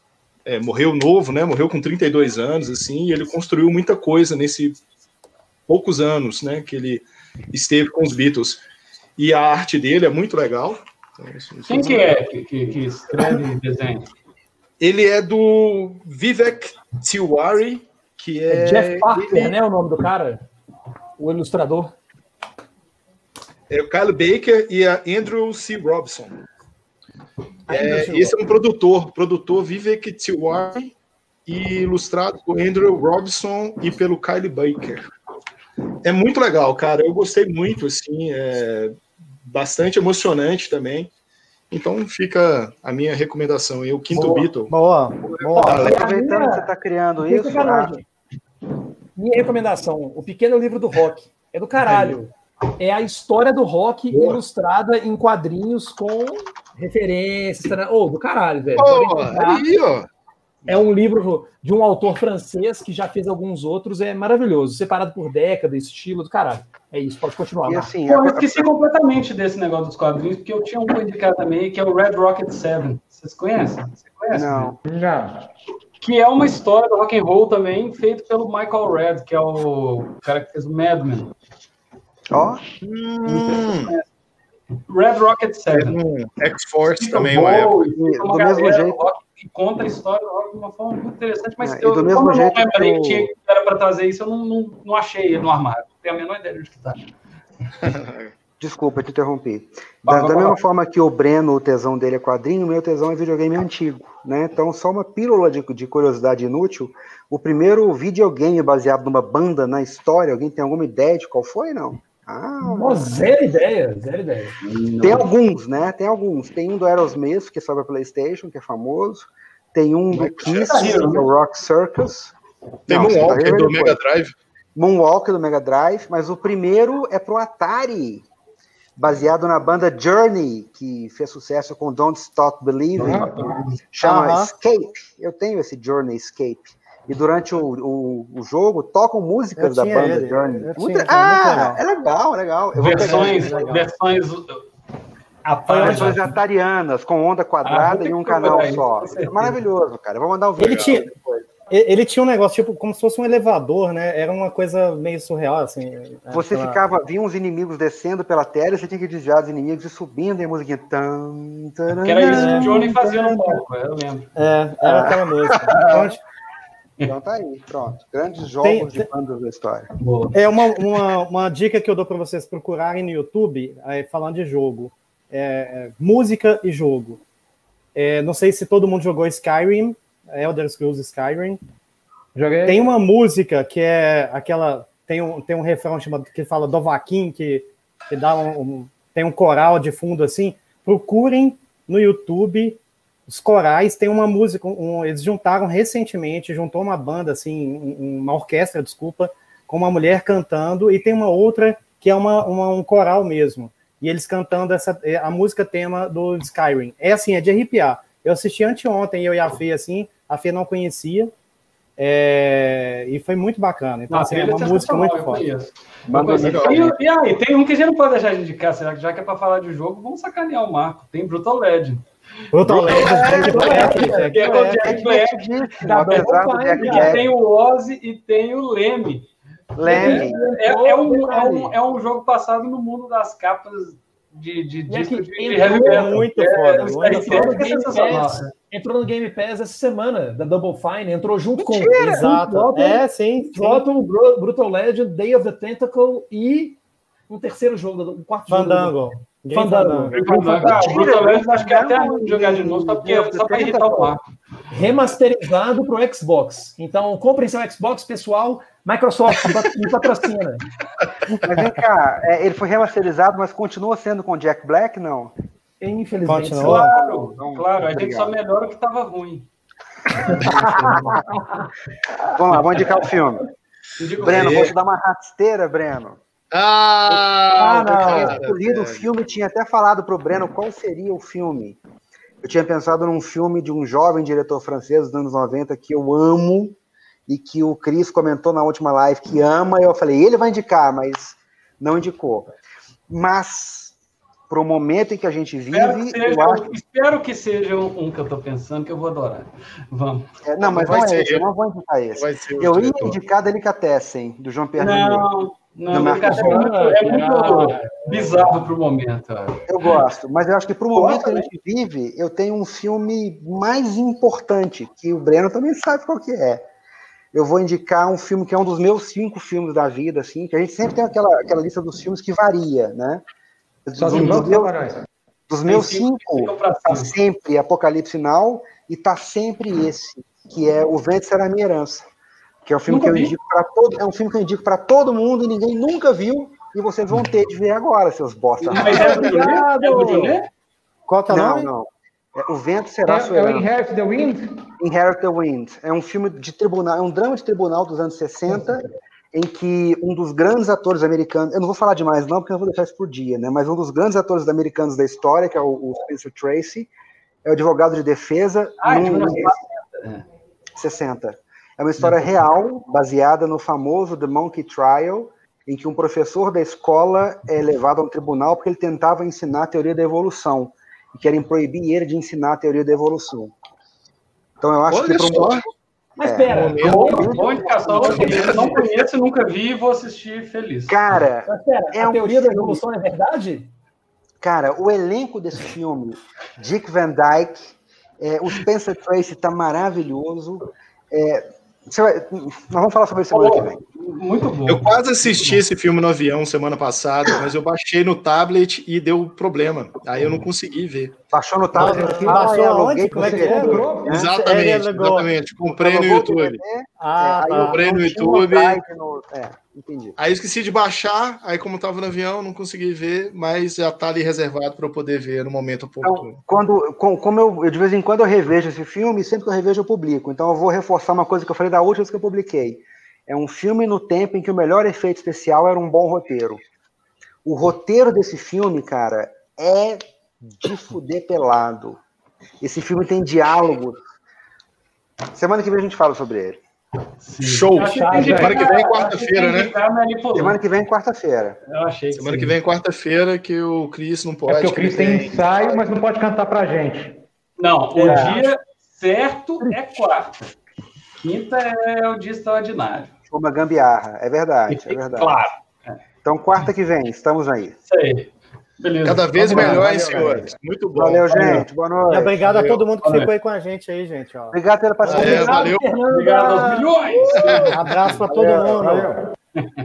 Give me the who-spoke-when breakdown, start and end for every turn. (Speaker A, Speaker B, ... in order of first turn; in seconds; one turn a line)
Speaker A: 0.5-4.8
Speaker A: 5.7-8.6
Speaker A: 9.2-12.2
Speaker B: 11.7-14.1
Speaker A: 14.8-19.5
Speaker C: 18.5-20.4
Speaker C: 21.2-21.9
Speaker A: 23.7-26.4
Speaker C: 27.7-28.4
Speaker A: 27.7-30.9
Speaker A: 31.4-35.1
Speaker A: 36.0-41.1
Speaker A: 41.7-44.7
Speaker D: 44.7-45.9
Speaker E: 45.2-47.9
Speaker A: 45.6-46.0
Speaker C: 45.6-46.7
Speaker C: 47.2-48.0
Speaker C: 49.2-59.6
Speaker A: 51.8-52.2
Speaker A: 54.1-54.4
Speaker A: 58.8-60.1
Speaker C: 60.7-67.9
Speaker E: 67.7-68.7
Speaker B: 68.1-74.7
Speaker E: 74.3-74.8
Speaker F: 74.8-75.4
Speaker B: 76.0-81.3
Speaker E: 82.3-82.6
Speaker A: 82.8-83.9
Speaker B: 84.9-86.0
Speaker A: 85.7-87.8
Speaker B: 87.0-97.2
Speaker E: 87.8-89.0
Speaker E: 91.6-93.3
Speaker A: 97.8-98.3
Speaker E: 98.6-113.0
Speaker B: 100.0-100.6
Speaker C: 112.6-114.6
Speaker E: 114.6-122.3
Speaker A: 120.1-121.0
Speaker B: 120.4-121.3
Speaker E: 122.9-124.0
Speaker A: 122.9-124.3
Speaker E: 124.8-128.3
Speaker E: 129.0-143.8
Speaker F: 133.0-133.5
Speaker D: 134.0-134.5
Speaker D: 139.6-141.8
Speaker B: 142.8-144.6
Speaker D: 142.9-143.9
Speaker B: 145.4-146.3
Speaker E: 145.7-151.5
Speaker B: 147.6-149.6
Speaker D: 150.6-151.1
Speaker D: 151.7-156.8
Speaker E: 156.3-162.8
Speaker B: 162.0-164.3
Speaker D: 162.3-163.6
Speaker D: 164.3-166.2
Speaker E: 164.8-165.2
Speaker A: 165.5-166.0
Speaker E: 165.7-166.1
Speaker E: 167.0-169.9
Speaker D: 168.6-169.1
Speaker B: 170.0-170.3
Speaker D: 170.3-177.2
Speaker D: 177.9-181.6
Speaker F: 182.3-182.9
Speaker D: 182.7-211.3
Speaker D: 212.0-215.4
Speaker B: 214.1-222.0
Speaker E: 216.1-216.9
Speaker A: 216.3-216.9
Speaker D: 222.5-225.1
Speaker A: 222.7-223.9
Speaker E: 222.8-224.1
Speaker B: 222.8-229.3
Speaker C: 223.2-224.5
Speaker E: 224.8-227.2
Speaker C: 225.8-227.2
Speaker E: 229.7-230.4
Speaker C: 229.8-231.7
Speaker B: 229.8-238.5
Speaker C: 234.9-236.3
Speaker D: 235.8-237.6
Speaker C: 236.8-249.0
Speaker E: 241.6-241.8
Speaker D: 241.9-243.9
Speaker D: 248.5-250.8
Speaker C: 249.5-250.9
Speaker B: 250.1-254.2
Speaker E: 250.6-254.1
Speaker C: 254.7-260.6
Speaker E: 261.3-265.3
Speaker C: 265.8-266.9
Speaker D: 266.2-266.9
Speaker B: 266.6-269.5
Speaker E: 266.8-268.3
Speaker C: 270.3-271.2
Speaker E: 270.4-271.2
Speaker E: 272.3-273.4
Speaker B: 272.5-272.9
Speaker B: 274.0-274.7
Speaker E: 274.2-276.2
Speaker A: 274.2-274.7
Speaker A: 276.5-279.1
Speaker C: 277.5-278.4
Speaker E: 277.6-281.8
Speaker E: 282.4-292.5
Speaker E: 293.1-293.9
Speaker E: 294.5-296.7
Speaker B: 295.7-300.3
Speaker E: 300.4-305.3
Speaker A: 300.6-301.5
Speaker A: 302.1-303.2
Speaker B: 304.8-310.0
Speaker E: 305.9-306.7
Speaker C: 305.9-307.8
Speaker F: 307.1-308.5
Speaker E: 309.7-316.6
Speaker B: 310.9-311.5
Speaker E: 317.3-323.2
Speaker E: 323.9-324.8
Speaker F: 323.9-325.1
Speaker B: 324.1-324.5
Speaker E: 325.5-332.1
Speaker B: 325.6-327.1
Speaker E: 332.6-339.4
Speaker B: 332.9-333.3
Speaker B: 338.6-340.5
Speaker A: 338.8-339.3
Speaker C: 338.9-340.4
Speaker D: 341.1-341.7
Speaker E: 341.3-343.7
Speaker F: 343.0-344.6
Speaker E: 344.8-356.9
Speaker E: 357.4-359.6
Speaker B: 358.8-360.2
Speaker E: 360.8-373.5
Speaker E: 374.6-375.6
Speaker A: 374.9-375.7
Speaker C: 376.2-378.8
Speaker E: 376.2-378.2
Speaker A: 376.4-377.4
Speaker B: 376.8-381.0
Speaker A: 378.0-378.8
Speaker E: 380.9-382.8
Speaker C: 381.4-383.7
Speaker E: 384.4-393.8
Speaker B: 393.3-395.6
Speaker A: 394.6-401.1
Speaker E: 401.3-404.3
Speaker D: 401.7-405.3
Speaker F: 401.8-402.6
Speaker F: 403.1-404.1
Speaker A: 404.1-406.6
Speaker E: 405.7-410.2
Speaker D: 407.0-407.8
Speaker A: 407.5-408.8
Speaker A: 410.2-416.4
Speaker E: 416.0-426.6
Speaker E: 427.4-432.0
Speaker E: 432.6-434.0
Speaker E: 435.3-436.6
Speaker B: 437.2-440.6
Speaker A: 437.4-439.7
Speaker C: 437.7-438.6
Speaker F: 438.2-438.5
Speaker E: 440.4-441.6
Speaker B: 441.7-442.5
Speaker A: 442.1-445.4
Speaker F: 444.5-447.2
Speaker B: 447.6-450.5
Speaker E: 448.0-448.4
Speaker B: 451.2-453.1
Speaker E: 453.3-455.4
Speaker B: 454.7-456.0
Speaker E: 456.2-457.8
Speaker B: 457.9-460.1
Speaker A: 459.0-461.6
Speaker E: 459.5-462.4
Speaker D: 459.6-460.3
Speaker D: 461.3-465.2
Speaker A: 462.4-462.8
Speaker B: 463.0-463.3
Speaker E: 464.5-465.7
Speaker A: 465.0-465.9
Speaker C: 465.1-467.7
Speaker B: 466.1-468.3
Speaker A: 467.4-467.7
Speaker D: 467.7-469.2
Speaker E: 468.3-468.9
Speaker F: 468.4-469.1